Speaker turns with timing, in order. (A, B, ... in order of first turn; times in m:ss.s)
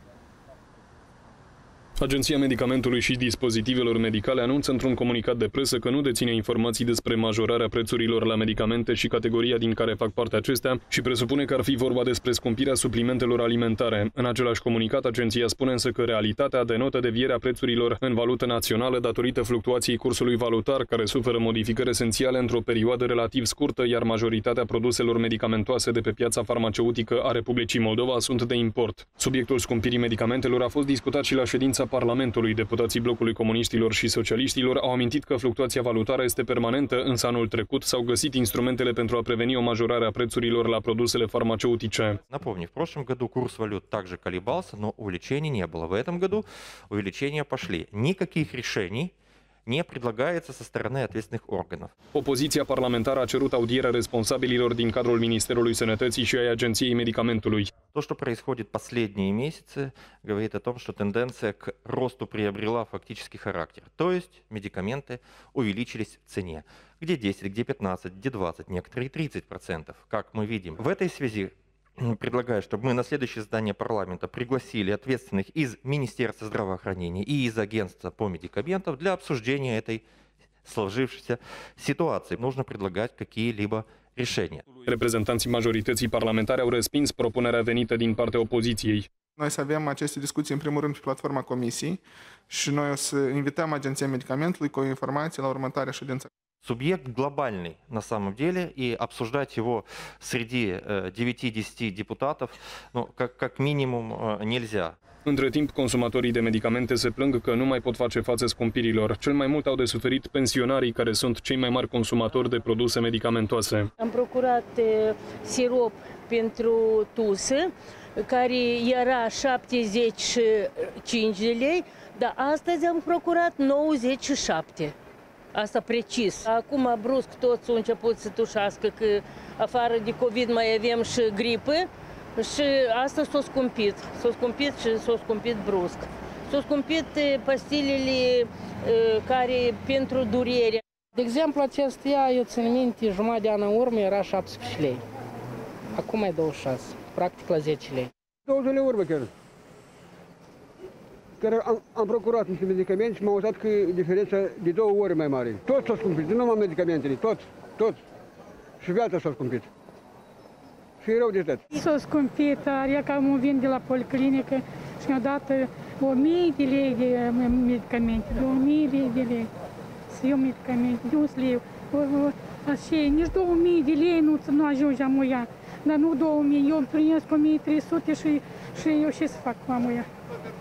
0:02.0-0:42.2 A
0:42.3-0:49.1 B
0:49.7-0:51.9 B
0:52.1-0:57.7 A
0:57.9-1:20.0 B
1:20.6-1:24.6 B
1:24.8-1:29.1 A
1:29.4-1:36.3 C
1:36.6-1:45.0 B
1:45.2-1:53.9 A
1:54.0-2:04.9 D
2:05.5-2:20.8 D
2:21.1-2:25.0 E
2:25.9-2:28.1 E
2:28.4-2:29.3 F
2:31.4-2:38.0 F
2:38.8-2:39.7 F
2:41.0-2:41.6 F
2:41.7-2:49.5 G
2:50.1-3:00.1 G